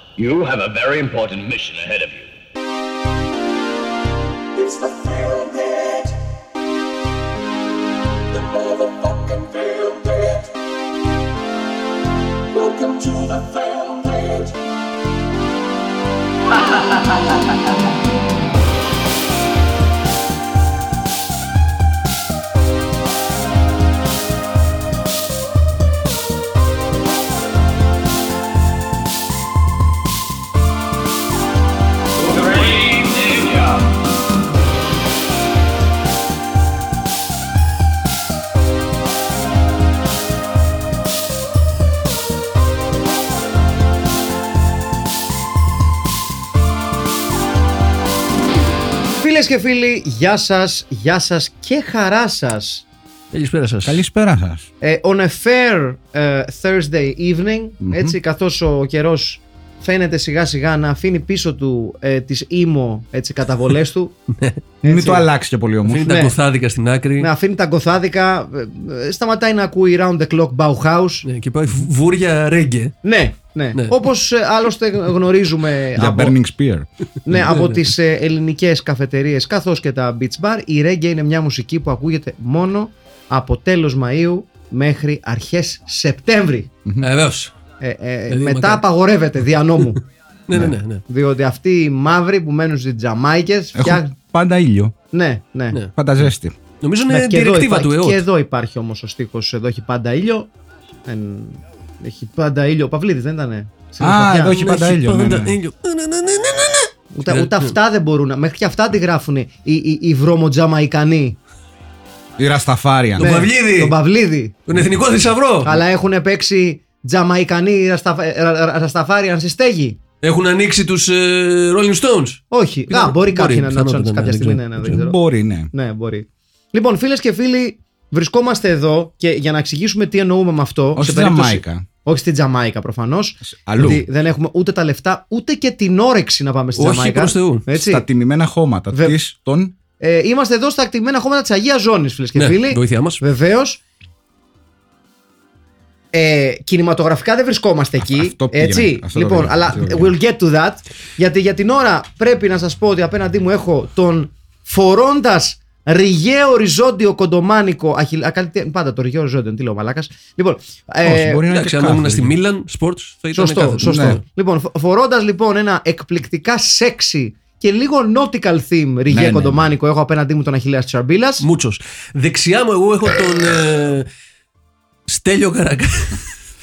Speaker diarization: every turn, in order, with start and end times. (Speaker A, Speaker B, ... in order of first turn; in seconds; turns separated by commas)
Speaker A: 0.2-2.3, Speaker B: 4.5-6.1, Speaker B: 8.3-10.5, Speaker B: 12.5-14.5, Speaker B: 16.7-17.4, Speaker B: 32.4-33.4, Speaker A: 32.5-33.7, Speaker C: 49.2-52.8, Speaker D: 53.3-54.0, Speaker E: 53.8-54.7, Speaker C: 54.8-64.2, Speaker E: 57.8-58.1, Speaker C: 64.8-65.3, Speaker E: 64.8-66.1, Speaker D: 65.9-67.3, Speaker C: 66.0-66.3, Speaker C: 67.2-71.2, Speaker D: 71.2-73.0, Speaker C: 73.0-76.3, Speaker E: 75.9-77.5, Speaker C: 77.2-86.7, Speaker D: 77.3-77.9, Speaker E: 86.8-87.1, Speaker D: 87.0-87.5, Speaker C: 87.8-90.0, Speaker D: 88.3-88.8, Speaker D: 90.5-91.0, Speaker C: 91.1-94.1, Speaker E: 93.8-94.9, Speaker C: 95.1-95.8, Speaker E: 95.9-96.6, Speaker D: 96.8-98.2, Speaker C: 97.1-100.5, Speaker C: 101.0-104.5, Speaker E: 104.0-105.6, Speaker D: 104.5-107.7, Speaker C: 107.1-111.4, Speaker E: 112.4-113.3, Speaker D: 113.2-114.0, Speaker C: 113.2-114.5, Speaker D: 114.7-115.8, Speaker C: 115.6-120.0, Speaker D: 120.2-125.0, Speaker C: 122.5-125.2, Speaker E: 124.8-125.7, Speaker C: 125.7-138.1, Speaker E: 130.9-131.8, Speaker E: 133.5-134.1, Speaker D: 136.8-137.6, Speaker E: 137.7-139.7, Speaker C: 140.0-143.8, Speaker D: 142.3-143.2, Speaker C: 146.1-161.4, Speaker E: 148.0-150.2, Speaker E: 161.0-162.3, Speaker D: 161.5-164.2, Speaker C: 163.3-171.4, Speaker E: 163.8-164.2, Speaker E: 169.1-169.7, Speaker D: 171.4-174.1, Speaker D: 175.1-176.3